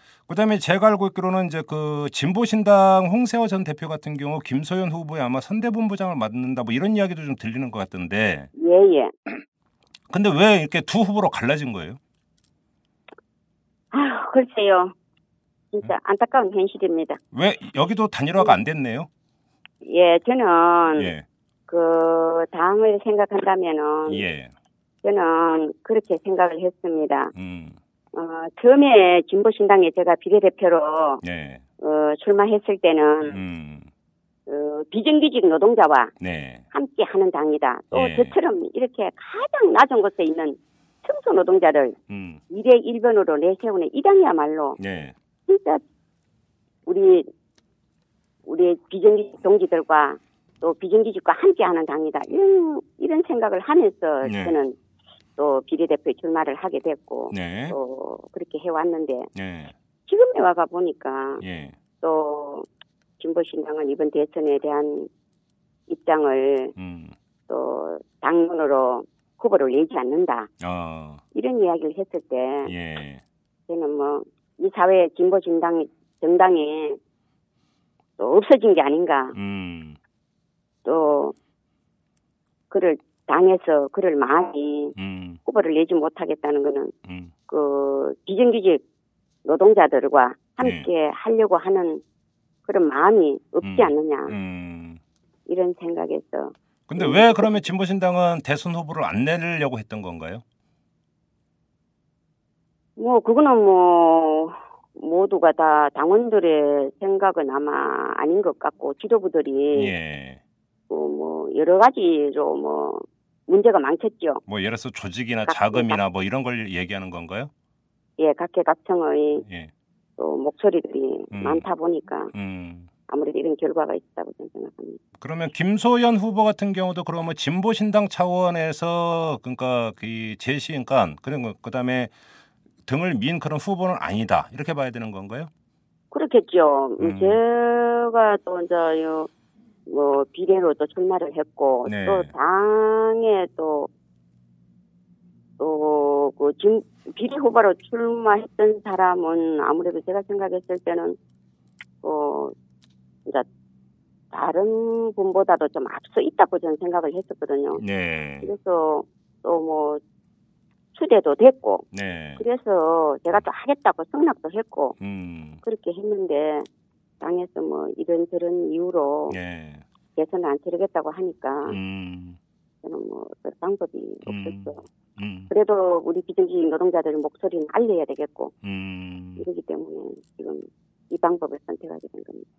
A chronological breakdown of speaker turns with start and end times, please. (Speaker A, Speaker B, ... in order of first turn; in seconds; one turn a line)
Speaker A: 0.3-8.5
Speaker B: 8.6-9.1
Speaker A: 10.1-12.0
Speaker B: 13.9-14.9
Speaker B: 15.7-17.2
Speaker A: 17.3-19.1
Speaker B: 19.8-21.1
Speaker A: 20.9-21.2
Speaker B: 21.7-24.2
Speaker A: 24.1-24.5
Speaker B: 25.0-27.3
Speaker A: 27.3-27.8
Speaker B: 28.1-31.2
Speaker A: 31.2-31.6
Speaker B: 31.8-33.4
Speaker A: 33.3-33.9
Speaker B: 34.5-36.1
Speaker A: 36.2-36.6
Speaker B: 36.7-42.0
Speaker A: 37.9-38.4
Speaker A: 42.1-42.4
Speaker B: 42.5-44.8
Speaker A: 44.8-45.1
Speaker B: 45.5-45.8
Speaker B: 46.9-47.3
Speaker B: 48.5-54.8
Speaker A: 54.2-54.6
Speaker B: 55.4-59.3
Speaker A: 57.3-57.8
Speaker A: 59.3-59.7
Speaker B: 60.1-61.4
Speaker A: 61.4-61.8
Speaker B: 62.0-62.7
Speaker B: 63.2-65.1
Speaker B: 65.9-66.7
Speaker A: 66.8-67.2
Speaker B: 67.5-70.5
Speaker A: 70.6-71.2
Speaker B: 71.3-72.7
Speaker A: 72.7-73.2
Speaker B: 73.7-77.0
Speaker B: 78.2-79.4
Speaker A: 79.3-80.0
Speaker B: 80.8-81.3
Speaker B: 82.7-85.0
Speaker A: 85.0-85.4
Speaker B: 85.5-86.9
Speaker A: 87.0-87.3
Speaker B: 87.5-88.8
Speaker B: 89.5-92.0
Speaker A: 90.6-90.9
Speaker B: 92.7-94.3
Speaker A: 93.6-95.0
Speaker B: 95.5-97.7
Speaker A: 96.9-100.4
Speaker B: 103.0-109.9
Speaker A: 109.7-110.4
Speaker B: 110.9-114.4
Speaker A: 114.5-117.5
Speaker B: 115.5-116.0
Speaker B: 118.2-119.5
Speaker A: 119.5-119.7
Speaker B: 120.2-122.3
Speaker A: 121.3-121.6
Speaker A: 122.3-122.9
Speaker B: 123.1-125.0
Speaker A: 125.2-132.1
Speaker A: 132.9-135.5
Speaker B: 136.1-139.3
Speaker A: 137.0-137.4
Speaker B: 139.9-143.9
Speaker A: 141.8-142.3
Speaker B: 145.6-151.2
Speaker B: 152.0-152.5
Speaker B: 154.3-157.8
Speaker A: 157.8-158.5
Speaker B: 158.4-160.0
Speaker B: 160.9-161.9
Speaker A: 161.9-162.4
Speaker B: 162.4-165.0
Speaker A: 165.0-165.6
Speaker B: 165.6-166.7
Speaker B: 167.2-169.4
Speaker A: 169.3-169.8
Speaker B: 170.2-171.8
Speaker A: 171.7-172.4
Speaker B: 172.8-174.8
Speaker A: 174.3-175.5
Speaker B: 175.5-178.5
Speaker A: 178.6-179.4
Speaker B: 179.4-182.5